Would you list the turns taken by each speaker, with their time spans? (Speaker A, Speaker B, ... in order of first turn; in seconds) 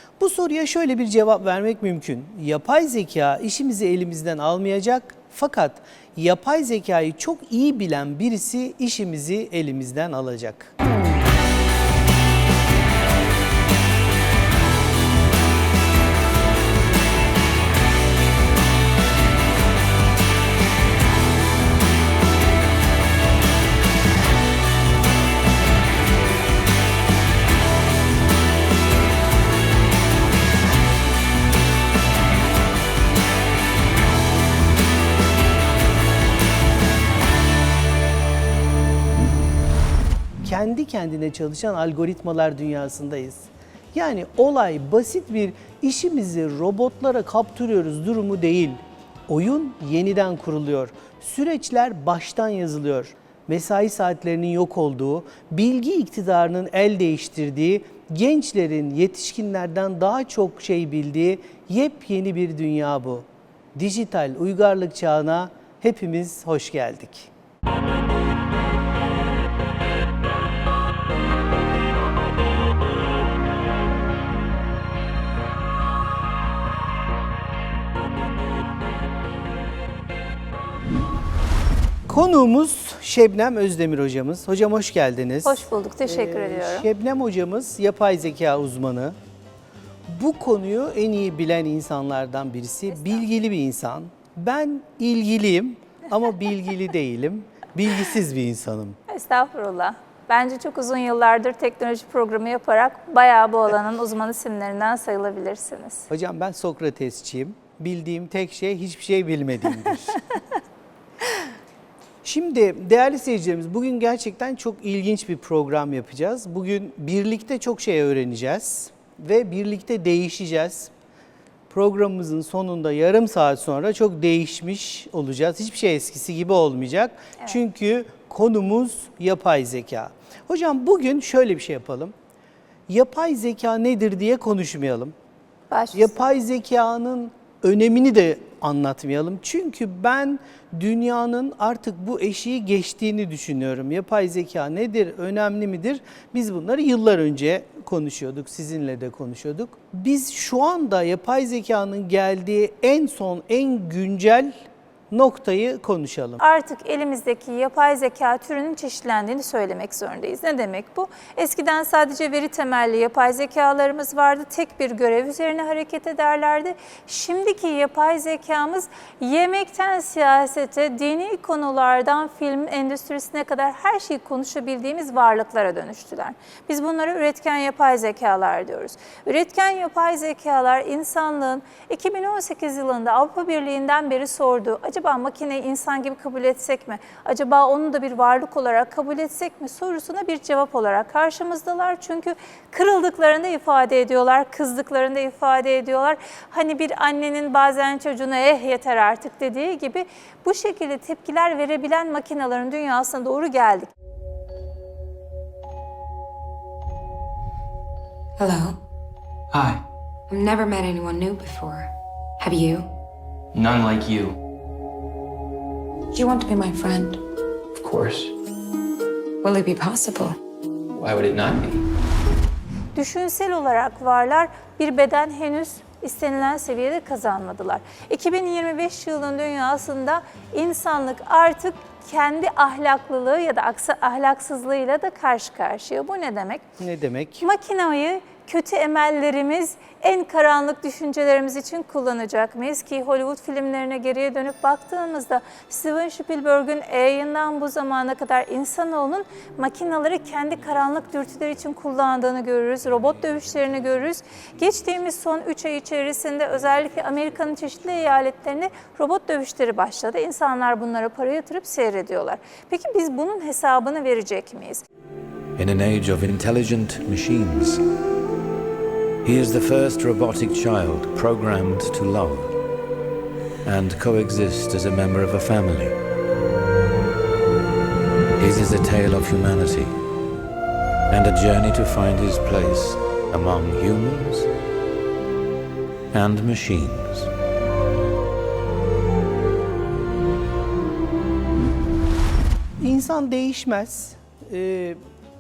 Speaker A: 0.2-10.7, 40.4-67.3, 82.1-89.2, 90.1-99.0, 106.1-110.2, 112.2-120.9, 121.7-132.1, 132.9-135.1, 135.9-154.5, 155.1-156.4, 236.8-237.5, 292.8-295.0
Speaker B: 85.5-86.9, 92.9-93.3, 99.1-106.1, 135.7-136.2, 156.4-203.9, 222.9-236.6, 237.4-264.8
Speaker C: 208.4-208.8, 210.3-212.9, 216.1-217.2, 219.4-220.4
Speaker D: 209.5-209.8, 213.5-214.4, 217.8-218.3, 220.9-221.9
Speaker E: 265.6-267.8, 269.2-272.6, 273.6-276.0, 278.4-279.9, 281.1-284.5, 286.1-287.3